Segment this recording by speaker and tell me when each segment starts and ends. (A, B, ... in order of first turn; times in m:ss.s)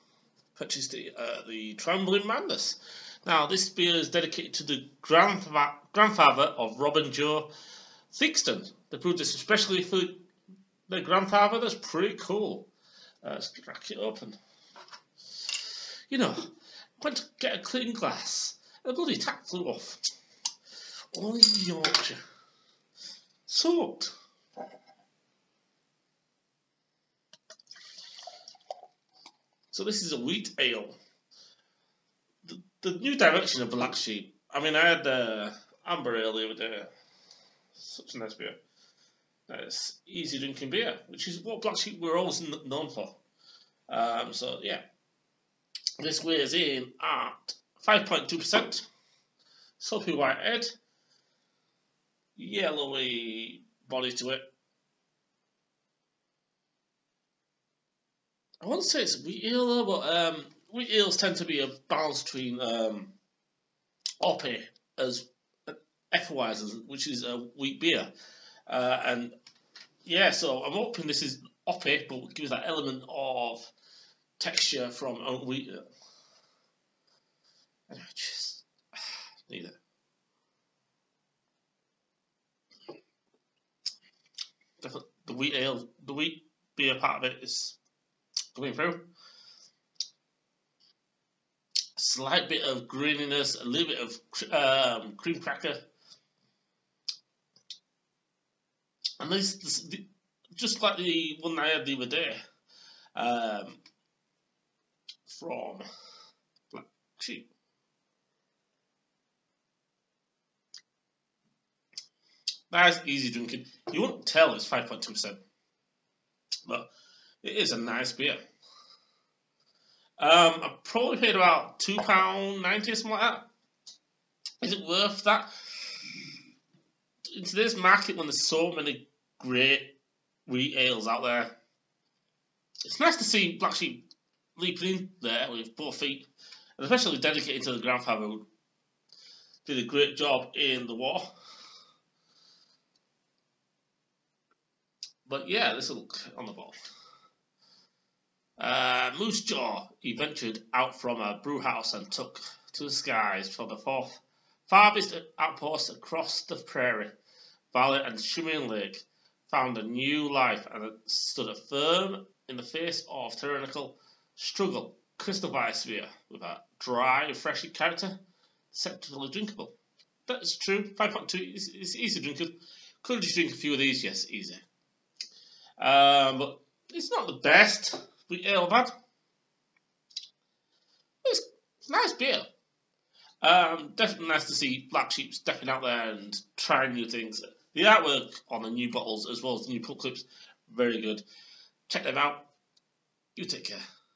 0:00.6-0:07.5 A
0:08.1-0:10.2 A
0:10.9-0:12.7 A
0:13.2-0:14.4 A
0:16.1-0:20.0 A
0:21.1-0:22.2 A
0:23.5-0:24.1 A
0:29.7-0:31.0 A
0:32.4-0:36.9 A
0:37.8-0:38.6 A
0:39.5-0:43.2 A
0:43.9-0:44.8 A
0:46.0-0:48.9 A
0:49.8-0:50.7 A
0:52.4-0:54.4 A
0:58.6-1:03.2 A
1:04.2-1:08.1 A
1:08.7-1:09.4 A
1:10.0-1:13.7 A
1:14.4-1:15.8 A
1:17.9-1:18.6 A
1:19.5-1:19.8 A
1:24.8-1:27.8 A
1:28.5-1:29.1 A
1:32.0-1:35.8 A
1:39.2-1:42.4 A
1:43.2-1:43.8 A
1:45.3-1:45.8 A
1:46.7-1:47.5 A
1:52.7-1:55.4 A
1:57.4-1:58.4 A
2:00.2-2:03.5 A
2:04.6-2:05.5 A
2:07.3-2:10.0 A
2:10.5-2:11.5 A
2:12.8-2:18.5 A
2:19.6-2:21.3 A
2:25.3-2:26.8 A
2:28.6-2:37.2 A
2:37.7-2:48.2 A
2:48.7-2:49.8 A
2:50.3-2:54.6 A
2:55.8-2:59.0 A
3:01.2-3:02.5 A
3:03.4-3:11.2 A
3:11.9-3:12.5 A
3:13.4-3:13.8 A